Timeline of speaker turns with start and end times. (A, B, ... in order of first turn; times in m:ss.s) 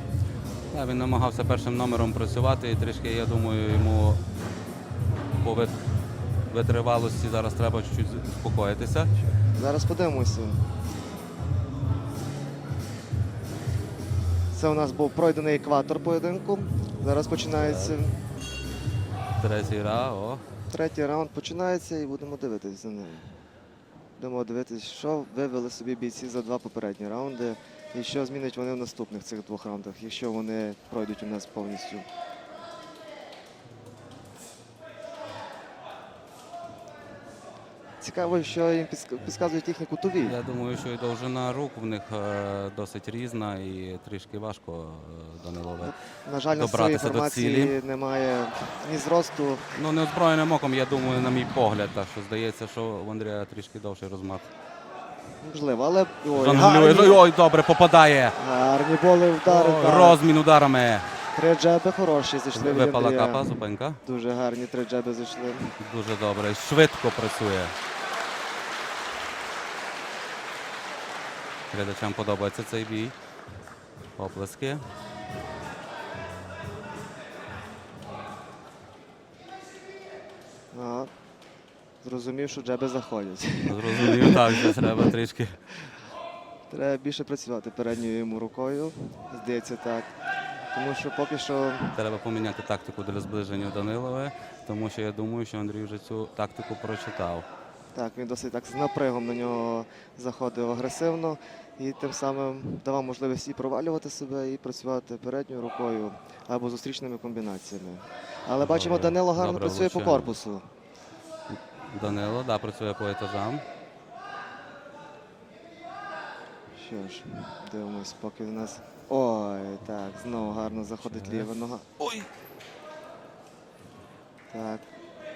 0:00.7-0:04.2 A
0:05.4-0:05.8 A
0:06.5-0:09.1 A
0:09.3-0:10.7 B
0:14.5-0:18.2 B
0:17.5-0:18.0 A
0:19.4-0:20.4 A
0:20.7-0:23.4 B
0:24.2-0:32.1 B
0:38.0-0:40.4 B
0:40.2-0:46.0 A
0:45.8-0:49.8 B
0:46.5-0:47.8 A
0:49.8-0:54.5 A
0:55.4-0:57.2 B
0:56.3-0:58.4 A
0:58.4-1:00.2 B
0:59.5-1:01.2 A
1:01.3-1:03.5 B
1:02.6-1:04.0 A
1:04.0-1:05.7 B
1:05.8-1:07.8 A
1:11.7-1:13.2 A
1:14.2-1:14.8 A
1:20.7-1:21.1 B
1:22.0-1:25.0 B
1:23.7-1:25.6 A
1:26.7-1:30.2 B
1:30.7-1:32.0 B
1:32.0-1:37.5 A
1:37.9-1:50.6 B
1:48.6-1:50.4 A
1:51.5-1:53.6 A
1:56.7-2:01.9 B
2:01.0-2:02.3 A
2:04.5-2:04.8 B